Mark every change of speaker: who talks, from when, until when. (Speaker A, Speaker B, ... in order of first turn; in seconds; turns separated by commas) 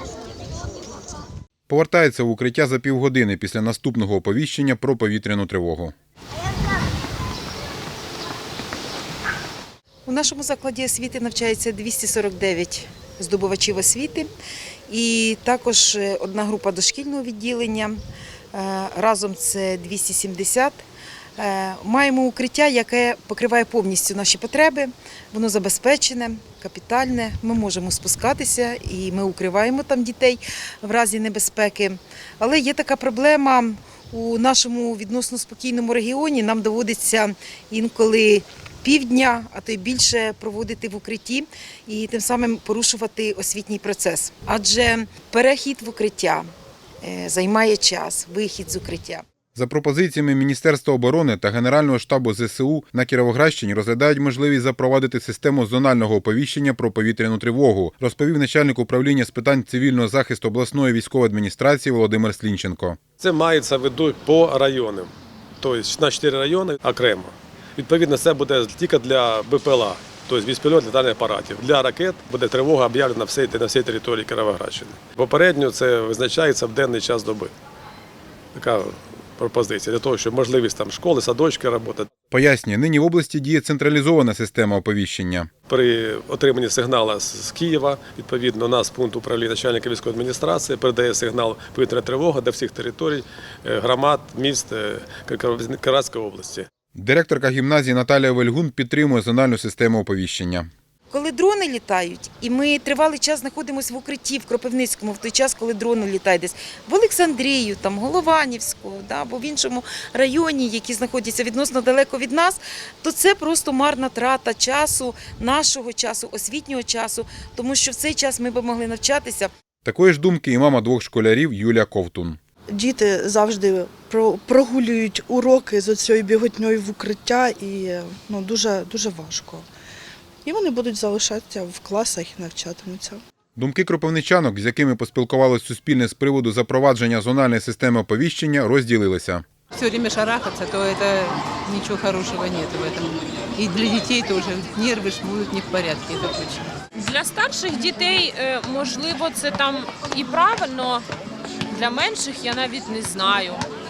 Speaker A: 1.7-5.9, Speaker B: 10.1-14.3, Speaker B: 14.9-18.0, Speaker B: 18.5-20.8, Speaker B: 21.4-46.5, Speaker B: 47.0-49.2, Speaker A: 49.5-63.0, Speaker C: 63.2-77.5, Speaker C: 78.5-82.1, Speaker A: 82.3-85.5, Speaker C: 85.7-96.7, Speaker A: 97.0-100.7, Speaker B: 101.1-119.5, Speaker A: 119.8-122.4, Speaker D: 122.7-129.7, Speaker D: 130.4-133.2, Speaker A: 133.6-139.4, Speaker E: 139.7-146.7, Speaker F: 146.9-151.0, Speaker F: 151.7-153.6